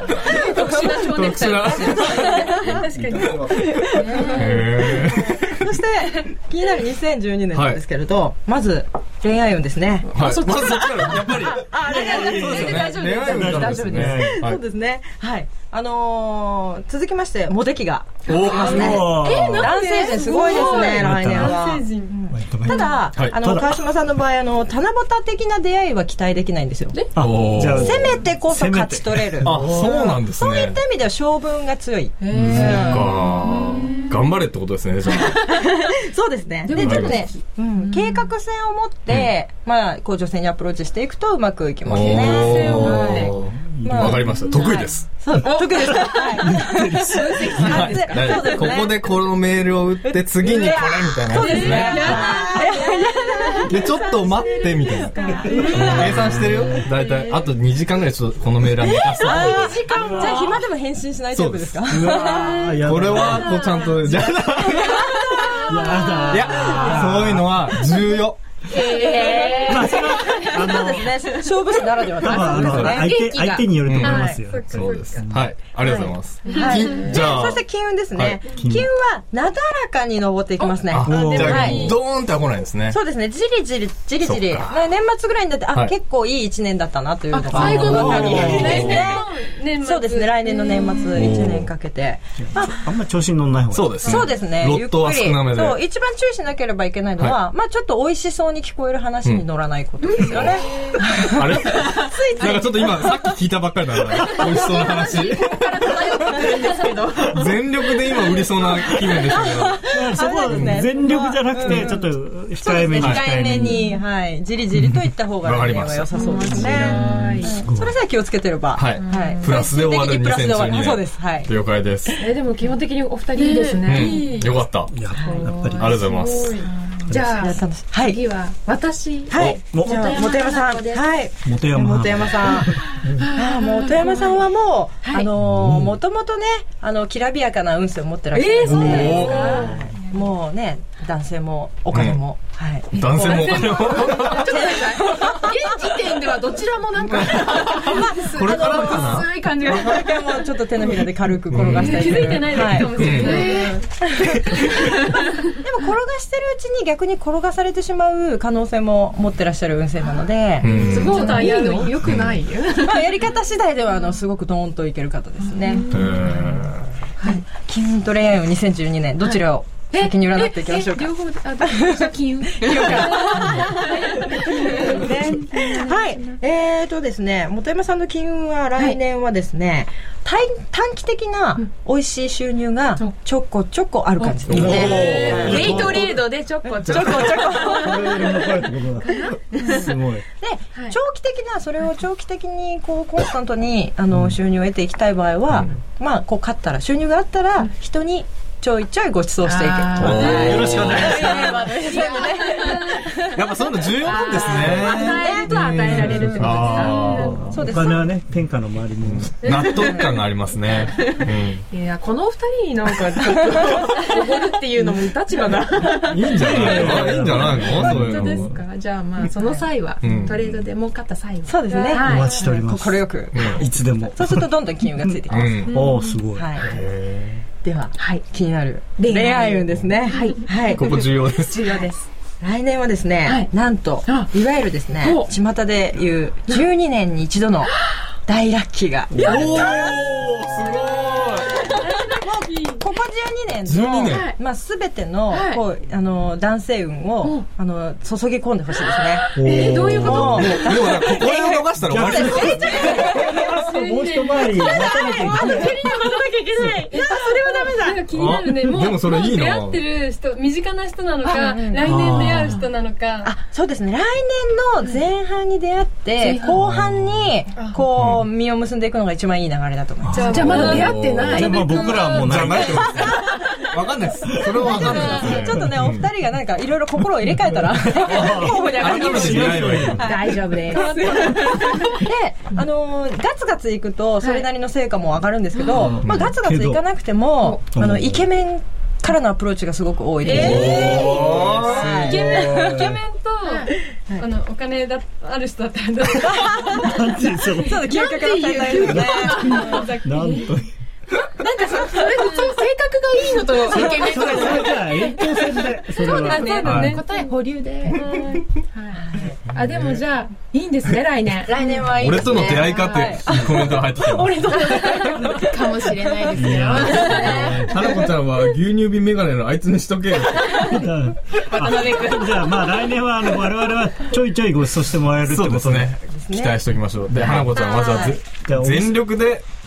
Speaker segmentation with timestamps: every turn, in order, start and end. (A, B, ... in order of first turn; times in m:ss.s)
0:00.3-0:02.5 A
0:00.6-0:03.8 B
0:02.7-0:03.8 C
0:03.9-0:04.7 A
0:04.2-0:04.6 D
0:04.4-0:05.6 B
0:05.5-0:10.1 D
0:07.5-0:07.8 B
0:10.0-0:14.3 A
0:10.1-0:14.6 B
0:11.5-0:12.9 D
0:11.8-0:14.4 E
0:14.0-0:19.0 D
0:18.2-0:19.0 B
0:18.3-0:21.0 A
0:18.6-0:19.8 E
0:19.1-0:22.1 C
0:19.6-0:27.1 D
0:20.8-0:21.6 E
0:22.3-0:23.8 E
0:22.7-0:22.9 A
0:23.2-0:23.5 B
0:27.2-0:29.9 E
0:27.2-0:28.2 B
0:27.7-0:33.0 D
0:29.4-0:30.8 B
0:32.2-0:34.2 A
0:32.3-0:35.6 B
0:32.3-0:32.9 E
0:35.1-0:35.9 A
0:35.4-0:43.3 D
0:36.7-0:38.2 A
0:36.8-0:37.2 B
0:41.9-0:45.1 B
0:42.0-0:43.2 C
0:42.1-0:43.3 A
0:42.7-0:44.8 E
0:43.8-0:47.0 D
0:44.6-0:44.9 A
0:45.4-0:48.8 A
0:46.1-0:48.0 E
0:47.4-0:52.3 B
0:47.6-0:49.1 D
0:50.0-0:56.0 D
0:51.3-0:52.8 C
0:51.4-0:53.6 A
0:53.7-0:59.8 B
0:55.2-0:56.1 A
0:55.5-0:55.9 C
0:55.6-0:56.9 E
0:56.9-0:57.4 A
0:59.2-1:02.6 D
0:59.3-1:00.5 A
0:59.9-1:00.5 E
1:01.3-1:02.0 B
1:01.9-1:03.6 E
1:02.2-1:04.0 C
1:02.2-1:02.7 A
1:02.8-1:05.1 B
1:03.4-1:04.3 A
1:04.0-1:05.5 D
1:04.9-1:07.0 A
1:05.4-1:06.2 C
1:05.7-1:08.0 E
1:06.3-1:08.4 B
1:08.7-1:11.5 A
1:08.9-1:10.0 D
1:09.6-1:11.1 E
1:10.6-1:13.1 D
1:12.2-1:13.8 A
1:12.2-1:15.5 E
1:12.6-1:12.9 B
1:13.8-1:17.6 B
1:14.0-1:15.2 C
1:14.0-1:14.4 D
1:15.8-1:21.9 D
1:16.4-1:17.1 C
1:16.4-1:17.3 A
1:18.2-1:18.5 B
1:18.5-1:18.9 E
1:20.9-1:23.0 B
1:21.0-1:22.0 E
1:21.1-1:22.0 C
1:22.9-1:29.2 D
1:24.2-1:24.8 B
1:27.3-1:28.9 A
1:27.6-1:31.1 C
1:27.6-1:29.0 B
1:27.8-1:28.9 E
1:29.8-1:32.8 D
1:30.6-1:31.1 A
1:31.2-1:31.7 B
1:32.4-1:34.1 E
1:33.7-1:35.8 B
1:34.0-1:43.2 D
1:40.1-1:40.6 B
1:41.2-1:46.0 B
1:44.2-1:47.5 A
1:47.3-1:49.8 B
1:48.2-1:48.9 A
1:49.4-1:52.0 D
1:49.9-1:53.8 E
1:50.5-1:50.9 B
1:51.7-1:52.0 A
1:52.6-2:01.5 D
1:53.6-1:54.0 A
1:55.4-1:56.7 B
1:56.1-1:57.5 A
1:56.5-1:57.9 E
1:58.8-2:02.2 B
1:59.0-1:59.5 A
2:02.2-2:04.5 A
2:03.4-2:04.6 C
2:03.8-2:05.0 B
2:04.9-2:06.1 E
2:05.2-2:05.5 D
2:05.2-2:06.0 A
2:05.8-2:06.6 B
2:05.9-2:06.7 C
2:06.6-2:11.1 A
2:07.1-2:07.5 E
2:07.2-2:08.2 D
2:09.3-2:12.8 D
2:09.3-2:09.7 B
2:09.4-2:10.2 E
2:11.4-2:13.2 E
2:13.1-2:14.4 A
2:13.4-2:25.6 D
2:15.4-2:16.0 E
2:18.3-2:20.3 A
2:18.6-2:19.9 E
2:18.6-2:19.6 B
2:19.2-2:19.6 C
2:21.9-2:22.2 B
2:22.9-2:24.6 B
2:23.1-2:24.4 C
2:23.2-2:30.5 A
2:27.0-2:34.6 D
2:27.3-2:30.0 B
2:31.5-2:33.6 B
2:31.6-2:33.9 C
2:33.0-2:33.9 A
2:35.5-2:41.4 D
2:40.6-2:42.4 B
2:40.7-2:43.1 A
2:40.8-2:42.0 C
2:42.7-2:45.9 D
2:45.4-2:46.6 A
2:45.9-2:46.9 B
2:47.2-3:05.8 D
2:49.9-2:56.4 A
2:53.2-2:54.2 C
3:04.2-3:09.9 A
3:04.5-3:05.4 B
3:04.5-3:06.2 E
3:06.6-3:08.0 D
3:06.8-3:10.3 E
3:10.4-3:23.4 D
3:15.5-3:15.8 B
3:19.4-3:23.2 A
3:20.0-3:21.2 B
3:20.1-3:21.6 E
3:20.2-3:20.5 C
3:23.4-3:27.6 B
3:24.0-3:27.5 A
3:24.4-3:25.5 D
3:25.9-3:26.5 E
3:26.4-3:27.5 C
3:27.2-3:29.6 E
3:27.5-3:28.0 D
3:29.0-3:31.6 B
3:29.4-3:30.2 C
3:29.8-3:30.1 D
3:30.8-3:31.1 D
3:31.7-3:42.4 A
3:33.3-3:33.8 D
3:36.1-3:38.5 B
3:36.1-3:38.6 E
3:40.0-3:40.6 B
3:41.4-3:45.6 D
3:41.7-3:42.6 C
3:42.0-3:44.5 E
3:43.3-3:43.6 B
3:45.3-3:45.8 B
3:45.7-3:46.6 E
3:45.7-3:46.2 C
3:45.7-3:46.1 A
3:46.3-3:46.7 D
3:46.6-3:47.5 B
3:47.6-3:50.9 D
3:48.0-3:48.2 A
3:49.0-3:52.1 A
3:50.8-3:51.8 B
3:52.4-3:57.7 D
3:53.2-3:53.5 A
3:54.0-3:54.3 A
3:55.0-3:55.3 A
3:58.3-3:59.9 D
3:59.1-3:59.6 E
3:59.2-4:01.8 B
3:59.2-4:00.0 A
4:01.8-4:02.8 C
4:02.2-4:09.4 D
4:03.7-4:04.3 B
4:04.0-4:04.4 A
4:05.3-4:05.6 A
4:09.2-4:11.2 A
4:09.4-4:10.7 E
4:09.6-4:13.1 B
4:10.0-4:13.2 D
4:11.8-4:15.9 E
4:12.7-4:13.0 A
4:13.4-4:23.3 C
4:14.3-4:18.1 A
4:16.6-4:16.9 E
4:17.0-4:17.8 D
4:18.1-4:19.8 B
4:21.2-4:22.6 A
4:21.8-4:22.6 E
4:23.2-4:30.8 D
4:26.2-4:26.6 A
4:26.6-4:27.2 B
4:28.0-4:28.3 B
4:30.1-4:32.4 C
4:30.1-4:33.2 E
4:30.1-4:31.9 A
4:30.3-4:36.1 B
4:34.4-4:34.8 E
4:34.6-4:53.0 D
4:34.7-4:35.4 A
4:34.9-4:35.4 C
4:38.0-4:40.4 E
4:38.0-4:40.1 B
4:38.3-4:42.0 A
4:40.7-4:41.9 C
4:44.2-4:44.5 A
4:45.7-4:46.8 E
4:47.7-4:48.3 E
4:50.2-4:53.0 E
4:50.3-4:50.8 A
4:50.3-4:52.4 B
4:51.8-5:00.5 C
4:53.4-4:53.7 A
4:56.2-4:56.8 D
4:56.8-4:57.9 E
4:57.6-4:59.8 D
4:57.9-4:59.9 A
4:58.8-5:00.7 E
5:01.4-5:08.1 A
5:02.0-5:02.5 C
5:03.7-5:07.0 E
5:05.9-5:07.3 C
5:06.6-5:07.0 B
5:07.9-5:08.5 C
5:08.7-5:13.1 A
5:09.0-5:09.4 D
5:09.5-5:10.0 E
5:11.5-5:15.1 D
5:12.0-5:15.2 B
5:12.0-5:12.5 E
5:13.3-5:13.7 E
5:14.5-5:17.6 A
5:16.3-5:17.7 E
5:17.0-5:20.8 B
5:20.7-5:26.0 E
5:21.5-5:22.8 A
5:25.2-5:29.5 B
5:26.0-5:26.6 D
5:27.2-5:27.5 E
5:27.2-5:28.2 D
5:28.4-5:29.1 E